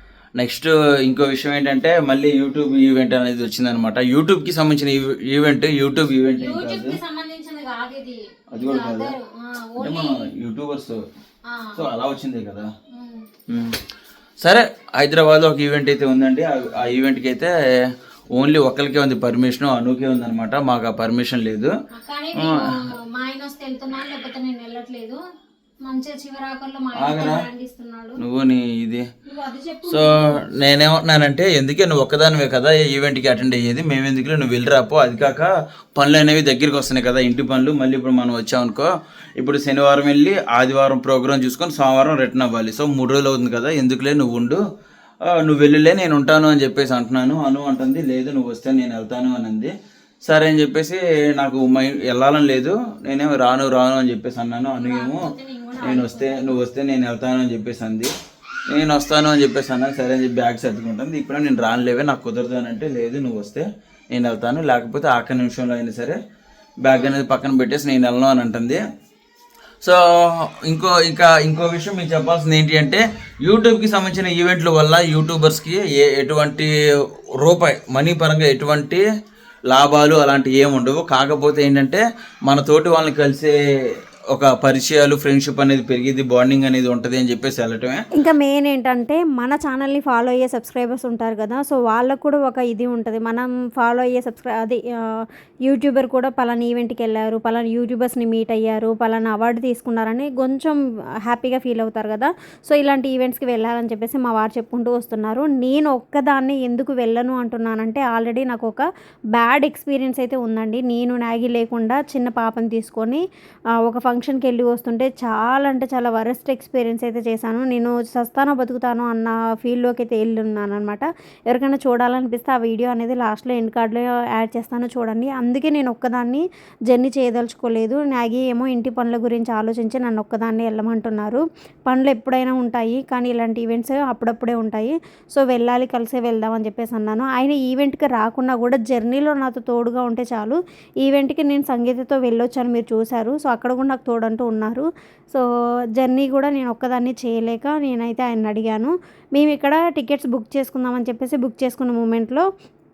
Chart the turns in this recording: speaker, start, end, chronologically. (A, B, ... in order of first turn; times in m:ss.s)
0:00.4-0:07.0 A
0:06.7-0:10.1 B
0:08.5-0:09.2 A
0:09.8-0:11.0 A
0:11.7-0:12.7 A
0:13.0-0:13.2 B
0:13.5-0:13.8 A
0:14.4-0:17.6 A
0:18.3-0:21.7 A
0:21.9-0:22.5 B
0:22.3-0:22.6 A
0:23.2-0:25.2 B
0:25.9-0:27.6 B
0:27.0-0:27.4 A
0:27.2-0:28.1 C
0:28.2-0:29.0 A
0:29.3-0:30.0 B
0:29.8-0:44.6 A
0:45.3-0:49.7 A
0:50.2-0:58.1 A
0:54.8-0:56.5 C
0:58.7-1:06.2 A
1:06.8-1:08.8 A
1:09.8-1:16.7 A
1:17.4-1:19.0 A
1:19.7-1:23.5 A
1:24.3-1:28.0 A
1:28.2-1:53.2 C
1:53.8-2:25.4 C
2:26.0-2:32.4 C